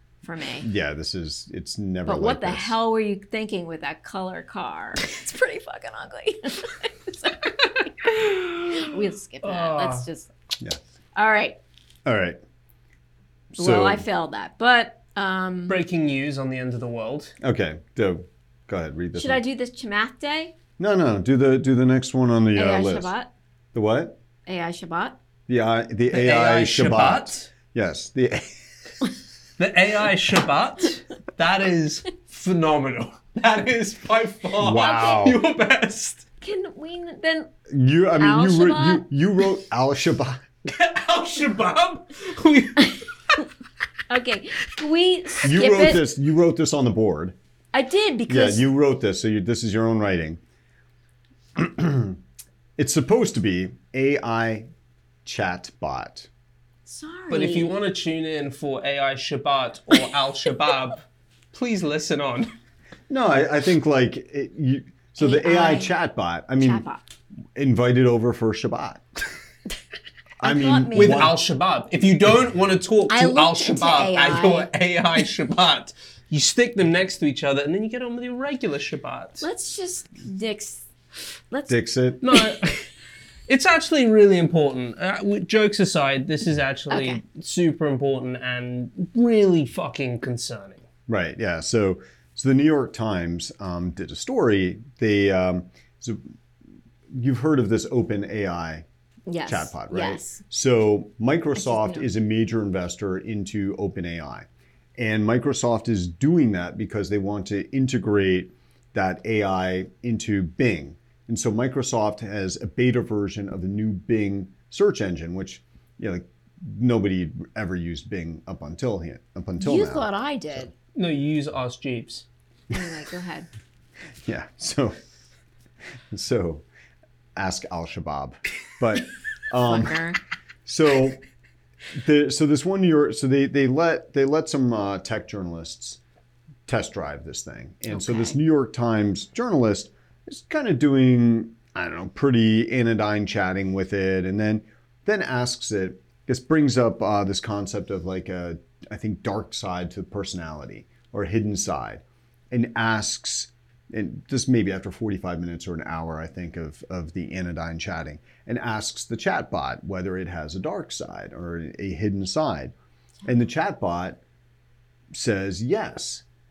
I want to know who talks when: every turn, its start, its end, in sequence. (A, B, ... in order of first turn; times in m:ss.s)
0:00.2-0:00.7 A
0:00.6-0:02.8 B
0:02.0-0:10.3 A
0:09.4-0:10.1 C
0:11.2-0:11.6 A
0:12.0-0:12.4 B
0:13.5-0:14.0 B
0:13.6-0:15.8 A
0:15.7-0:17.3 C
0:17.4-0:19.4 B
0:19.2-0:20.6 A
0:20.8-0:23.1 B
0:22.6-0:23.3 A
0:23.7-0:24.2 B
0:24.5-0:25.2 A
0:25.5-0:28.6 B
0:26.1-0:27.5 C
0:29.6-0:36.3 C
0:34.6-0:35.4 B
0:34.7-0:35.3 A
0:36.4-0:37.5 A
0:37.7-0:40.4 B
0:38.2-0:39.1 A
0:40.6-0:43.0 C
0:44.1-0:46.0 A
0:45.4-0:47.4 B
0:47.7-0:48.7 A
0:48.3-0:50.4 B
0:51.6-0:52.2 B
0:52.8-0:54.7 B
0:55.2-0:56.3 B
0:56.9-0:57.8 A
0:57.3-1:02.5 C
1:03.1-1:06.8 B
1:05.2-1:06.0 A
1:06.6-1:07.0 A
1:07.6-1:09.0 B
1:10.4-1:11.3 A
1:10.4-1:11.4 B
1:10.9-1:19.5 C
1:13.1-1:14.7 A
1:19.4-1:20.9 A
1:21.5-1:21.8 A
1:21.7-1:22.2 B
1:22.2-1:22.9 C
1:23.5-1:30.8 C
1:26.9-1:27.2 A
1:31.1-1:36.2 B
1:37.1-1:38.8 B
1:39.3-1:40.4 A
1:39.5-2:00.6 B
1:41.6-1:42.1 A
1:59.6-2:00.7 A
2:01.0-2:02.2 C
2:02.7-2:03.5 A
2:04.2-2:05.0 B
2:06.1-2:06.6 B
2:07.4-2:10.0 B
2:09.6-2:10.2 A
2:10.7-2:11.2 B
2:12.0-2:16.0 B
2:16.7-2:42.7 B
2:17.9-2:18.4 A
2:43.2-2:44.2 B
2:45.1-2:46.2 B